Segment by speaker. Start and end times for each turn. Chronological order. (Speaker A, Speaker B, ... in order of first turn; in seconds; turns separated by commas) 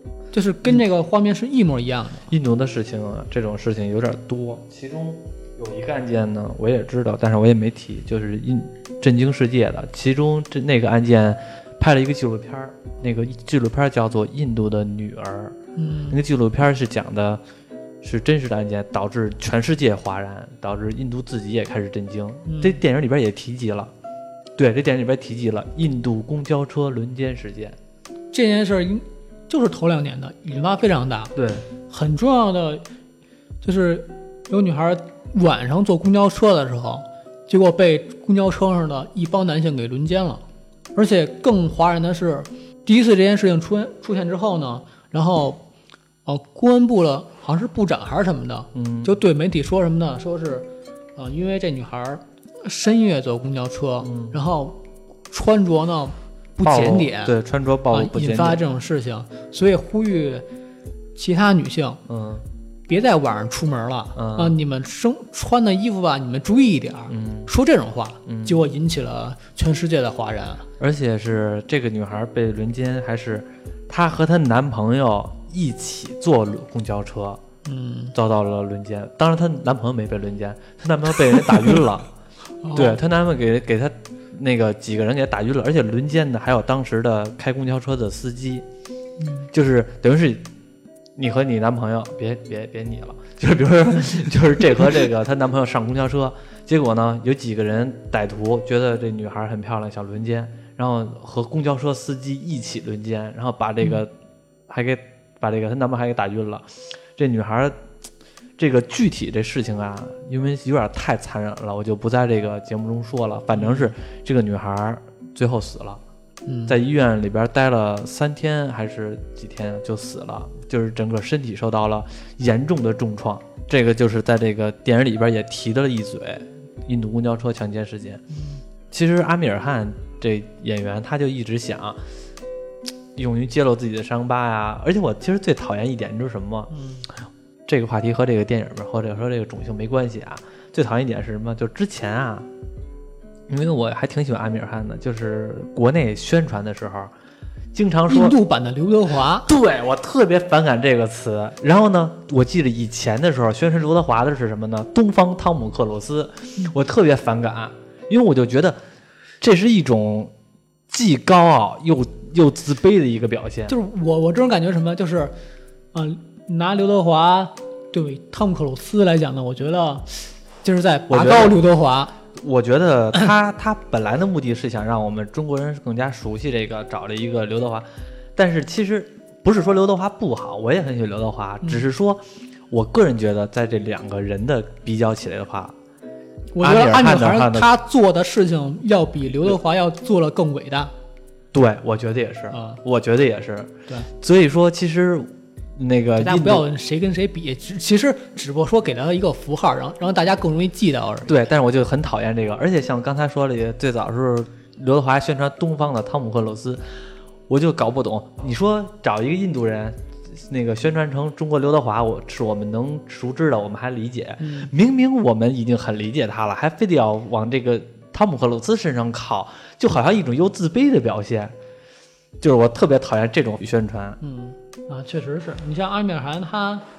Speaker A: 0.3-2.3, Speaker B: 2.3-15.6, Speaker A: 15.8-16.2, Speaker B: 16.1-17.4, Speaker B: 18.0-23.9, Speaker A: 22.4-22.8, Speaker B: 24.6-27.8, Speaker A: 28.3-31.3, Speaker B: 31.3-31.7, Speaker A: 31.9-32.8, Speaker A: 33.6-40.4, Speaker A: 40.9-45.6, Speaker A: 46.2-54.8, Speaker B: 48.7-49.1, Speaker B: 54.0-54.4, Speaker A: 55.3-57.3, Speaker B: 56.6-58.6, Speaker A: 57.9-60.4, Speaker A: 61.1-62.0, Speaker B: 62.1-62.4, Speaker A: 62.9-70.6, Speaker B: 64.2-64.6, Speaker B: 67.1-67.5, Speaker B: 68.2-68.6, Speaker B: 70.8-77.4, Speaker A: 77.6-78.1, Speaker B: 78.1-82.1, Speaker A: 82.6-83.0, Speaker B: 82.7-88.6, Speaker A: 89.2-89.5, Speaker B: 89.5-90.5, Speaker B: 91.2-104.1, Speaker B: 104.7-107.8, Speaker B: 108.6-116.0, Speaker A: 113.5-113.9, Speaker A: 116.5-116.8, Speaker B: 116.7-128.2, Speaker A: 128.3-128.6, Speaker B: 128.9-132.0, Speaker B: 133.1-136.7, Speaker A: 136.7-137.1, Speaker B: 137.7-142.5, Speaker B: 143.5-147.1, Speaker B: 147.7-148.4, Speaker A: 148.1-149.5, Speaker B: 149.4-158.8, Speaker B: 159.4-160.3, Speaker B: 160.9-163.7, Speaker A: 163.7-165.3, Speaker A: 165.9-172.1, Speaker B: 171.1-171.6, Speaker B: 172.3-185.7, Speaker A: 186.5-190.9, Speaker B: 186.6-187.7, Speaker B: 191.5-196.7, Speaker A: 192.5-192.8, Speaker A: 196.2-201.3, Speaker B: 201.3-207.0, Speaker B: 207.5-221.5, Speaker A: 214.4-214.7, Speaker B: 222.4-224.2, Speaker A: 224.2-226.8